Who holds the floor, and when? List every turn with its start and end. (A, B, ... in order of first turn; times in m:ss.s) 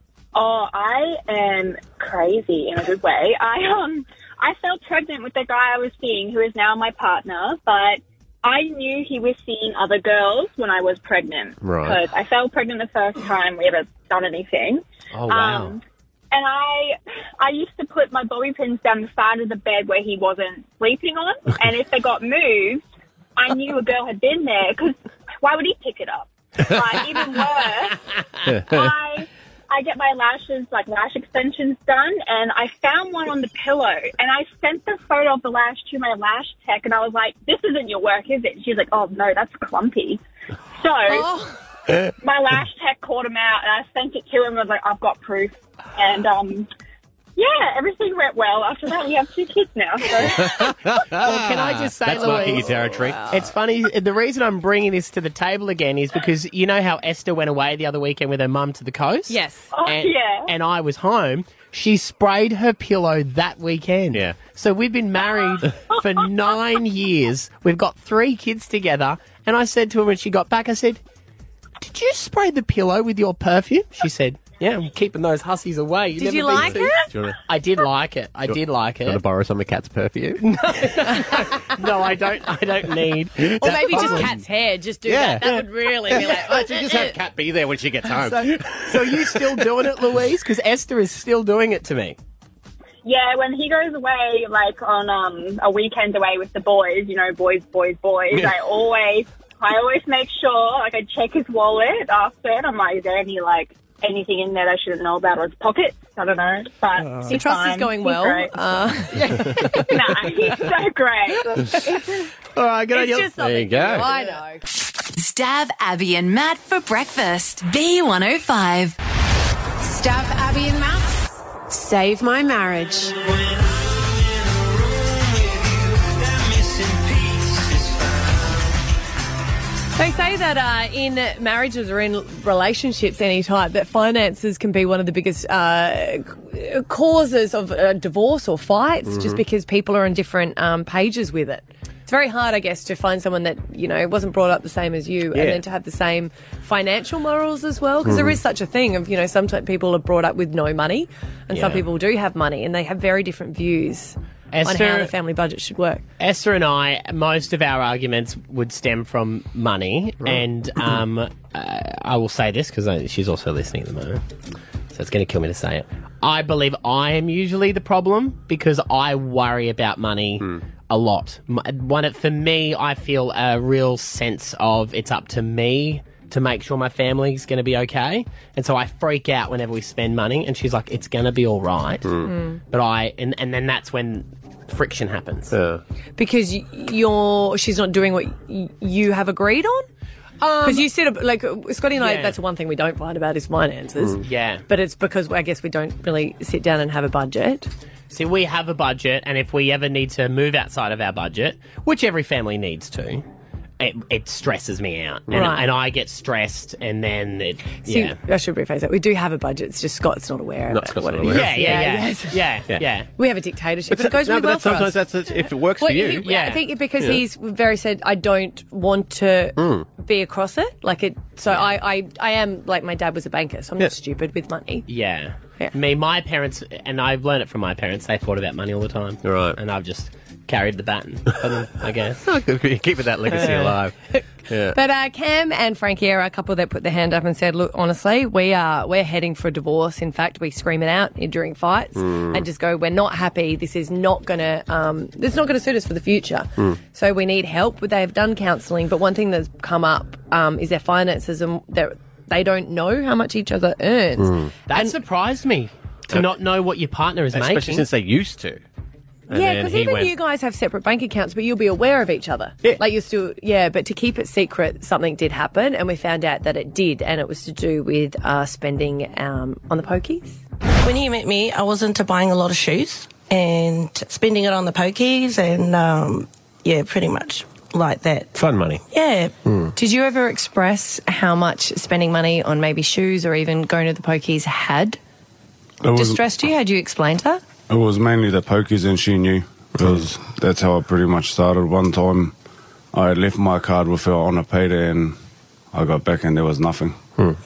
0:00.3-0:22.8 A
0:11.6-0:12.0 B
0:15.1-0:15.7 C
0:23.4-0:28.0 A
0:26.6-0:27.4 B
0:28.4-0:28.9 B
0:28.6-0:40.2 A
0:40.7-0:41.3 A
0:41.1-0:41.6 D
0:42.2-0:46.7 A
0:47.4-0:50.5 A
0:50.2-0:53.2 B
0:51.2-1:11.0 C
0:52.1-0:53.4 D
0:59.3-0:59.7 D
0:59.7-1:00.5 A
1:05.3-1:06.0 A
1:11.8-1:19.2 C
1:16.2-1:17.1 D
1:16.5-1:17.4 B
1:18.5-1:20.4 B
1:20.4-1:24.3 C
1:20.7-1:21.7 D
1:23.4-1:24.4 B
1:23.6-1:27.2 D
1:25.0-1:30.0 B
1:28.2-1:32.2 C
1:33.0-1:48.6 A
1:38.3-1:38.6 B
1:47.1-1:50.0 D
1:49.1-1:49.9 C
1:49.9-1:51.4 A
1:51.5-1:52.2 D
1:52.5-1:53.3 C
1:52.9-1:54.6 D
1:53.4-1:54.1 B
1:55.2-1:59.0 E
1:59.8-2:03.2 F
2:09.9-2:36.0 D
2:19.0-2:19.4 B
2:25.3-2:25.6 B
2:28.0-2:28.4 B
2:31.5-2:31.8 C
2:34.5-2:35.1 C
2:36.2-2:44.2 C
2:44.9-3:02.2 C
3:02.0-3:02.3 B
3:02.2-3:02.6 D
3:02.7-3:05.5 C
3:05.5-3:05.8 B
3:06.2-3:09.9 D
3:10.4-3:10.8 C
3:10.6-3:17.7 D
3:12.0-3:12.4 C
3:14.2-3:14.6 C
3:18.1-3:23.2 C
3:23.8-3:28.2 C
3:25.3-3:25.6 D
3:27.8-3:32.5 D
3:30.7-3:31.8 B
3:31.2-3:33.1 C
3:33.2-3:44.9 D
3:33.9-3:36.3 B
3:36.2-3:36.6 C
3:37.0-3:37.2 B
3:39.6-3:39.9 B
3:44.9-3:52.2 C
3:49.2-3:49.6 B
3:52.2-3:54.8 B
3:54.7-4:14.9 D
4:02.0-4:02.5 B
4:14.2-4:14.5 B
4:14.7-4:17.9 C
4:17.3-4:18.6 B
4:19.3-4:20.1 B
4:19.3-4:30.4 D
4:30.8-4:38.3 G
4:38.3-4:38.8 B
4:38.9-4:39.3 G
4:39.7-4:45.0 D
4:45.8-4:46.2 H
4:46.0-4:47.4 D
4:47.7-4:52.3 H
4:52.9-4:55.2 H
4:55.7-4:57.0 H